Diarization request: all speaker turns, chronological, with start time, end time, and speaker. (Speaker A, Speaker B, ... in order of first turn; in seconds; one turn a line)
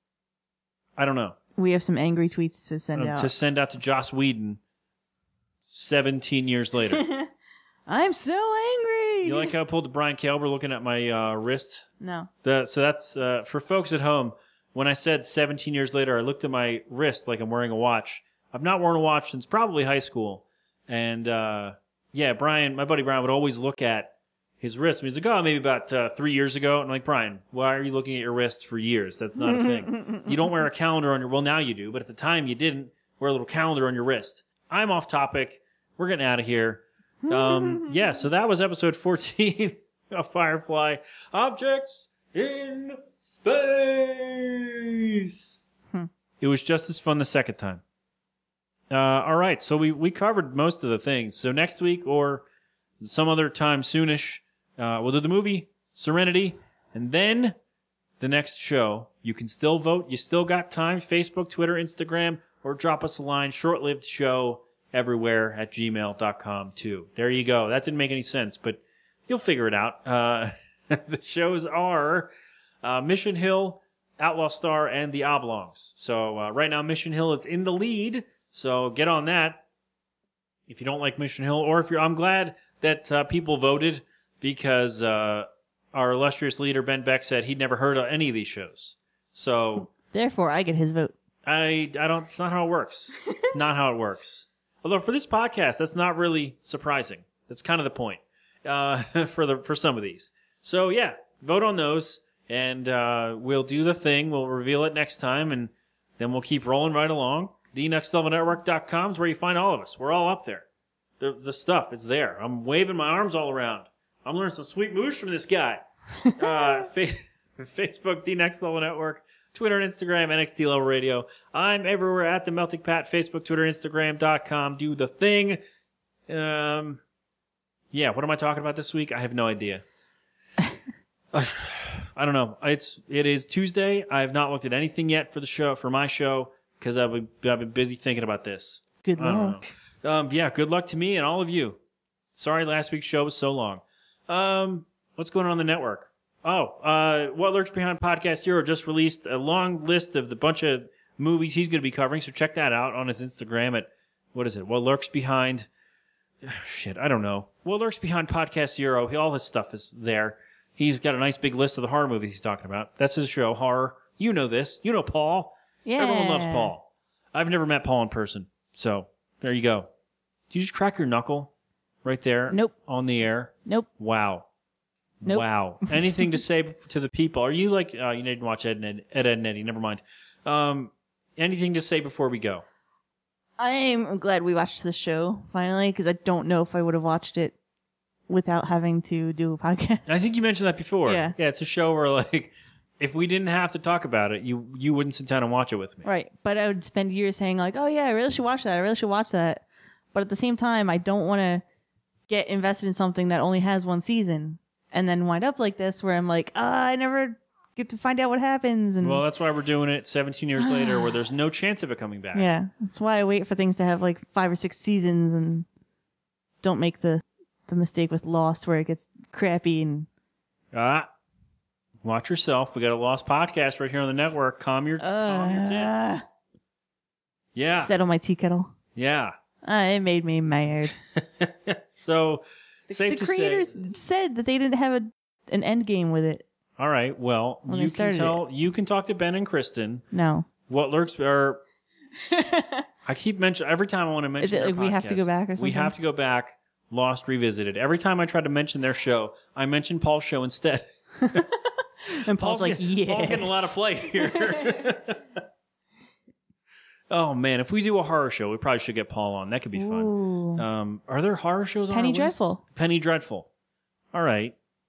Speaker A: 1.0-1.4
Speaker B: 1.6-3.3
Speaker A: 2.9-4.6
Speaker A: 5.6-7.0
Speaker B: 7.0-7.3
Speaker B: 7.9-9.5
Speaker A: 9.2-11.9
Speaker B: 12.0-12.3
Speaker A: 12.4-45.6
Speaker B: 29.5-30.2
Speaker B: 37.3-37.9
Speaker A: 46.4-47.8
Speaker A: 48.9-52.5
Speaker A: 53.0-57.5
Speaker A: 58.2-79.6
Speaker A: 80.7-89.9
Speaker B: 89.9-91.1
Speaker A: 91.5-110.7
Speaker A: 111.2-125.6
Speaker A: 126.3-127.0
Speaker A: 127.9-129.8
Speaker A: 131.3-141.8
Speaker B: 139.0-139.7
Speaker A: 142.3-155.7
Speaker A: 156.4-169.9
Speaker B: 165.8-166.7
Speaker A: 170.5-171.5
Speaker A: 172.0-174.5
Speaker A: 175.2-182.6
Speaker B: 175.2-175.9
Speaker B: 183.6-187.6
Speaker B: 188.3-190.1
Speaker A: 190.1-196.1
Speaker B: 191.1-191.4
Speaker B: 196.0-201.6
Speaker B: 202.3-209.2
Speaker A: 209.0-212.5
Speaker B: 210.6-211.1
Speaker B: 212.3-215.7
Speaker B: 216.6-220.1
Speaker A: 220.7-221.1
Speaker A: 222.0-226.2
Speaker B: 225.0-226.2
Speaker A: 227.6-227.9
Speaker B: 227.7-228.7
Speaker A: 229.0-229.3
Speaker B: 229.6-230.9
Speaker A: 231.1-233.8
Speaker B: 232.9-236.4
Speaker A: 236.8-240.1
Speaker B: 237.7-238.4
Speaker B: 240.1-240.5
Speaker A: 240.7-241.6
Speaker B: 242.3-242.8
Speaker A: 243.1-251.4
Speaker B: 244.4-245.9
Speaker B: 251.2-254.6
Speaker A: 252.3-255.2
Speaker A: 257.1-263.5
Speaker B: 259.8-260.6
Speaker B: 261.9-262.6
Speaker A: 264.1-264.6